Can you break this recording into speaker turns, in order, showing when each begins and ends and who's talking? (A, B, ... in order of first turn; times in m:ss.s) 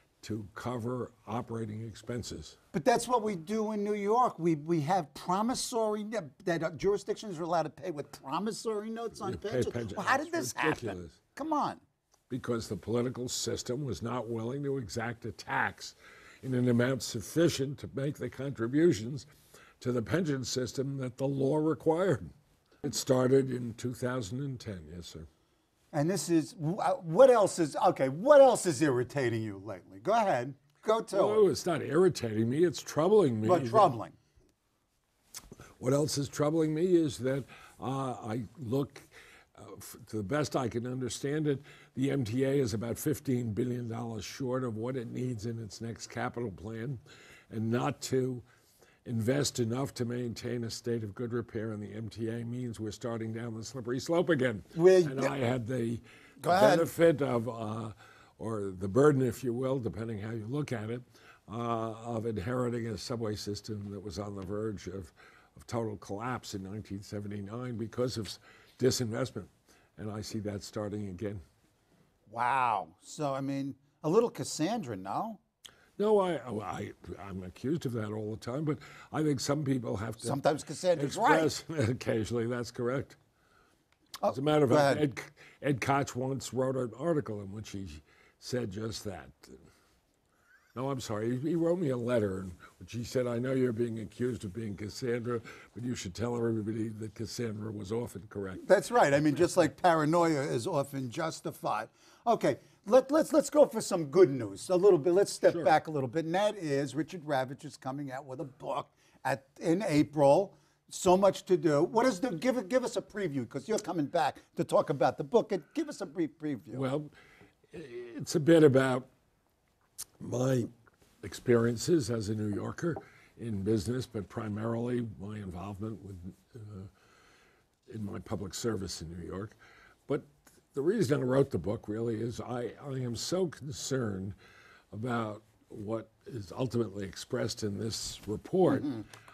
0:00.2-0:02.6 A
0:02.7-0:11.8 B
0:09.2-0:11.2 A
0:12.3-0:19.3 A
0:19.8-0:22.3 A
0:22.8-0:25.3 A
0:25.9-0:31.4 B
0:31.1-0:33.9 A
0:33.4-0:34.2 B
0:35.8-0:48.4 A
0:49.0-1:11.4 A
0:54.7-0:55.3 B
0:56.4-0:56.9 B
1:12.3-1:15.4 B
1:16.0-1:20.4 A
1:20.2-1:21.5 B
1:21.0-1:23.2 A
1:24.2-1:25.0 B
1:24.3-1:29.6 A
1:30.7-1:38.6 A
1:38.6-1:56.8 B
1:45.5-1:45.7 A
1:56.7-1:57.1 A
1:57.7-1:59.1 A
2:00.2-2:00.7 A
2:01.2-2:06.9 A
2:07.9-2:09.5 A
2:10.1-2:14.3 A
2:14.9-2:18.9 A
2:18.7-2:19.0 B